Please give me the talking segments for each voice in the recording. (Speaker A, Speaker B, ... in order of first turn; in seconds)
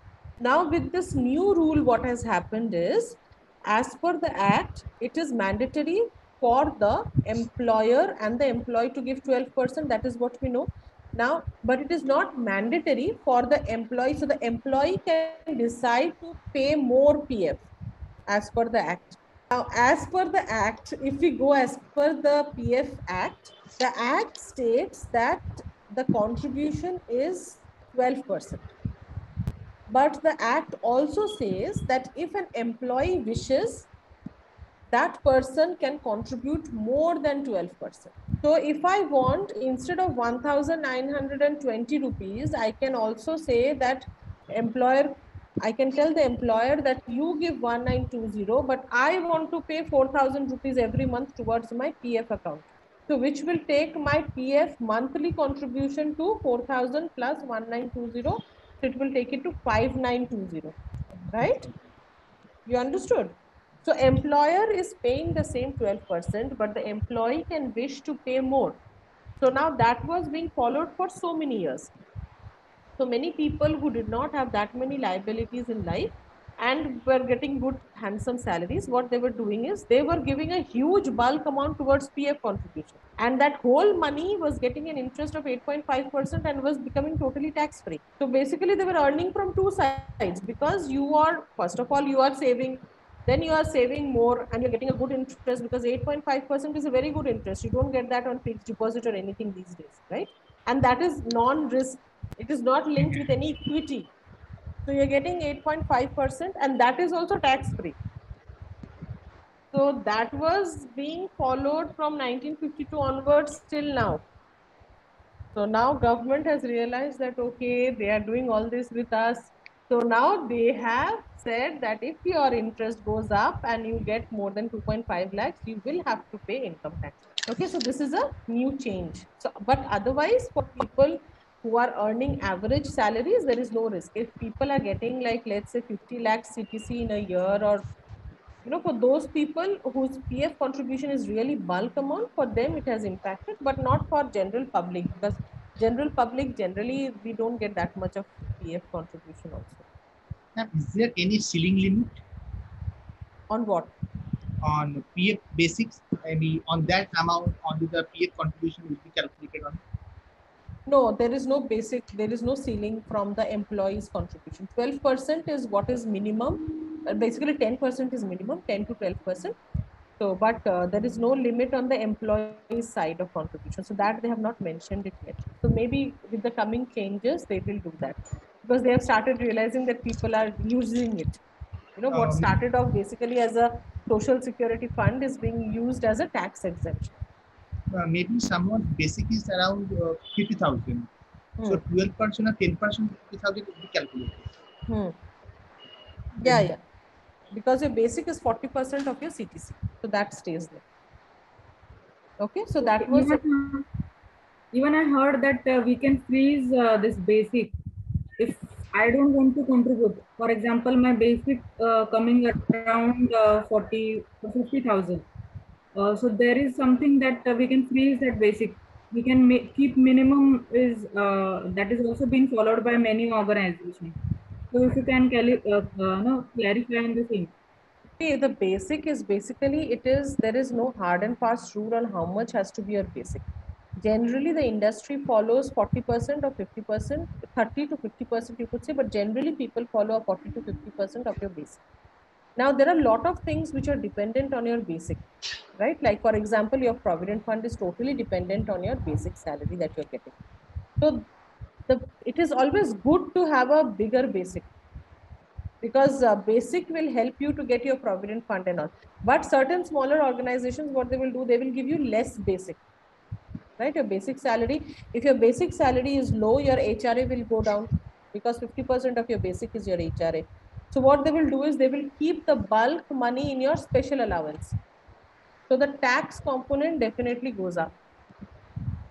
Speaker A: 0.4-17.6, 18.3-28.7, 29.9-33.9, 34.9-60.7, 61.3-61.7, 62.6-68.8, 69.4-71.9, 73.0-104.1, 104.8-108.0, 109.7-114.2, 115.5-137.8, 138.6-149.8, 153.5-153.9, 160.9-169.6, 170.2-181.4, 182.0-187.2, 194.9-195.1, 196.4-196.8, 197.5-200.8, 202.4-203.4, 228.2-233.5, 234.0-241.8, 242.6-245.2, 245.8-250.3, 251.0-251.3, 251.9-254.7, 255.8-262.8, 263.8-274.8, 275.7-277.9
Speaker B: 150.5-152.2, 154.6-159.8, 182.1-182.5, 187.9-191.1, 191.7-194.5, 196.4-196.7
Speaker C: 202.8-203.9, 204.7-207.7, 208.4-215.2, 215.9-224.1, 224.7-227.5